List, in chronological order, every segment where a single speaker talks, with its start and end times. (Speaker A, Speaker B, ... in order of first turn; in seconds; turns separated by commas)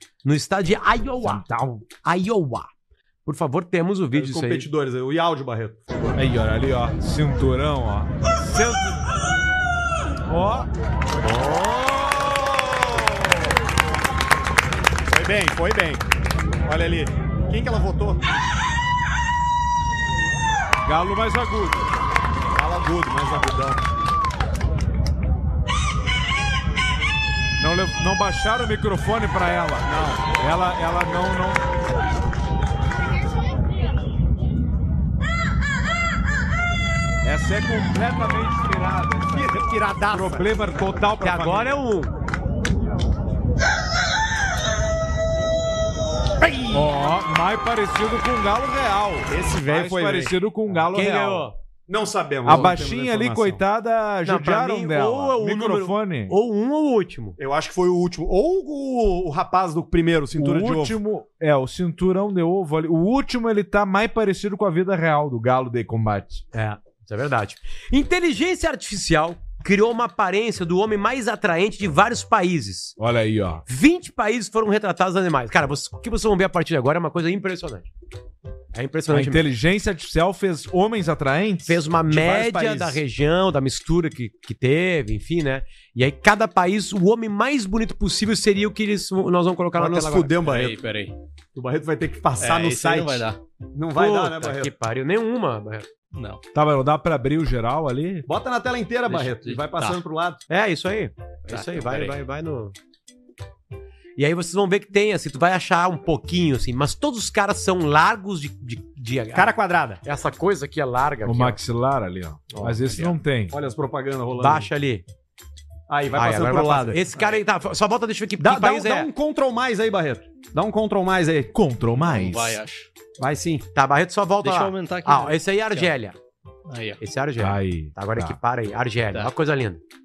Speaker A: 0.2-1.4, Speaker B: 1.2-1.9, Speaker A: 1.9-2.7, Speaker A: 3.2-4.7, Speaker C: 4.1-5.8, Speaker B: 6.1-9.0, Speaker B: 10.3-10.7, Speaker A: 11.2-11.8, Speaker B: 11.9-12.6, Speaker C: 15.1-16.0, Speaker C: 16.6-18.2, Speaker B: 20.8-21.9, Speaker C: 22.5-23.8, Speaker B: 27.6-31.6, Speaker C: 29.8-30.2, Speaker B: 37.2-39.5, Speaker C: 39.3-40.5, Speaker B: 40.1-41.8, Speaker A: 41.2-42.1, Speaker C: 46.4-46.9, Speaker B: 46.7-51.5, Speaker C: 49.3-50.3, Speaker A: 50.9-51.5, Speaker C: 51.9-53.6, Speaker B: 52.5-56.3, Speaker A: 54.2-57.4, Speaker C: 57.4-61.0, Speaker B: 60.4-66.4, Speaker A: 66.5-73.0, Speaker B: 73.0-73.6, Speaker A: 73.7-77.9, Speaker A: 78.7-79.5, Speaker B: 79.1-81.8, Speaker A: 81.7-90.4, Speaker C: 82.1-83.0, Speaker C: 89.8-90.8, Speaker D: 90.4-91.1, Speaker C: 91.5-94.7, Speaker D: 92.4-93.4, Speaker A: 93.9-95.9, Speaker D: 96.1-96.4, Speaker B: 96.5-98.3, Speaker C: 98.2-100.4, Speaker D: 99.1-100.0, Speaker A: 100.5-102.7, Speaker D: 101.5-102.2, Speaker A: 104.2-109.5, Speaker C: 109.3-110.0, Speaker A: 110.0-111.6, Speaker B: 111.2-113.5, Speaker A: 112.5-113.0, Speaker C: 113.5-114.7, Speaker A: 114.4-115.0, Speaker C: 115.9-117.2, Speaker A: 116.1-119.1, Speaker C: 118.4-121.5, Speaker B: 121.5-122.6, Speaker D: 122.0-122.9, Speaker C: 123.2-123.7, Speaker A: 123.7-126.2, Speaker D: 124.4-125.9, Speaker D: 126.7-127.0, Speaker A: 127.0-129.8, Speaker B: 127.4-128.4